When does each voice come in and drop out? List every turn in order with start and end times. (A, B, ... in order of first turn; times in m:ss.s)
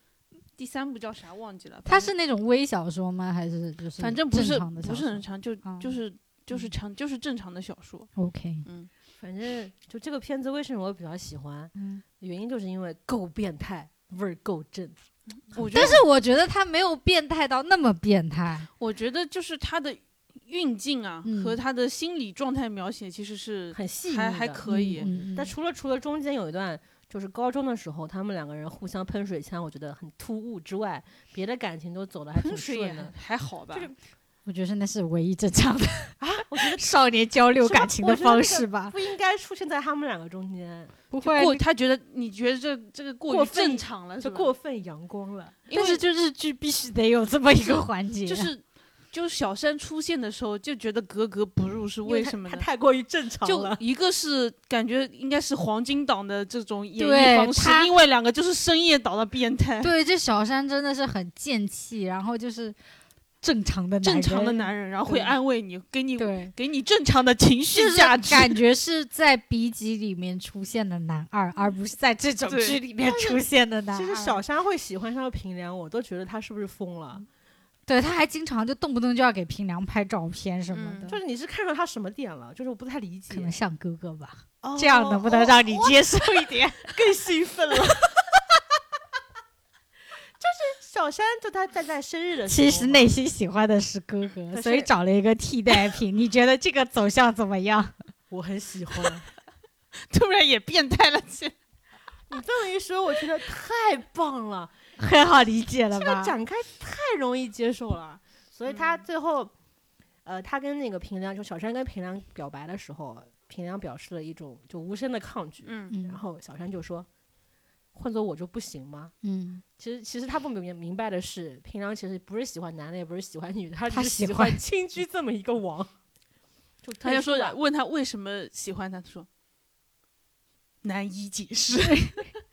0:00.6-0:02.1 A
0:01.8-0:06.0 B
0:04.0-0:08.1 A
0:08.2-0:08.6 B
0:09.2-0:15.0 C
0:11.8-0:12.0 B
0:15.5-0:16.0 A
0:15.6-0:18.7 B
0:18.8-0:25.1 A
0:21.2-0:21.6 B
0:23.7-0:33.1 C
0:24.7-0:25.5 B
0:32.4-0:33.9 A
0:34.4-0:39.0 B
0:36.2-0:36.9 C
0:37.6-0:40.9 C
0:41.1-0:41.6 B
0:41.2-0:44.5 A
0:43.3-0:45.6 C
0:45.7-0:46.0 A
0:45.7-0:48.5 B
0:48.2-0:52.7 A
0:52.0-0:53.8 C
0:53.4-0:59.9 A
0:57.0-0:57.9 B
0:59.8-1:02.8 B
1:03.4-1:05.3 B
1:04.0-1:08.6 A
1:06.2-1:06.5 B
1:07.7-1:14.4 B
1:12.5-1:12.8 A
1:13.0-1:17.2 C
1:17.9-1:21.2 B
1:20.7-1:21.1 A
1:21.0-1:23.5 C
1:23.3-1:26.8 B
1:24.6-1:26.1 C
1:26.9-1:28.1 C
1:30.4-1:33.1 C
1:32.5-1:37.9 B
1:34.5-1:34.9 C
1:38.3-1:39.2 C
1:40.1-1:41.5 A
1:42.3-1:44.7 C
1:45.0-1:46.3 B
1:45.9-1:49.5 C
1:48.7-1:49.0 A
1:50.2-1:57.1 C
1:55.6-1:55.9 A
1:55.9-1:56.2 B
1:57.9-1:59.1 C
1:59.2-1:59.6 B
1:59.8-2:05.9 C
2:03.9-2:04.6 B
2:06.8-2:07.6 C
2:07.0-2:09.3 A
2:10.8-2:12.3 A
2:11.9-2:12.1 B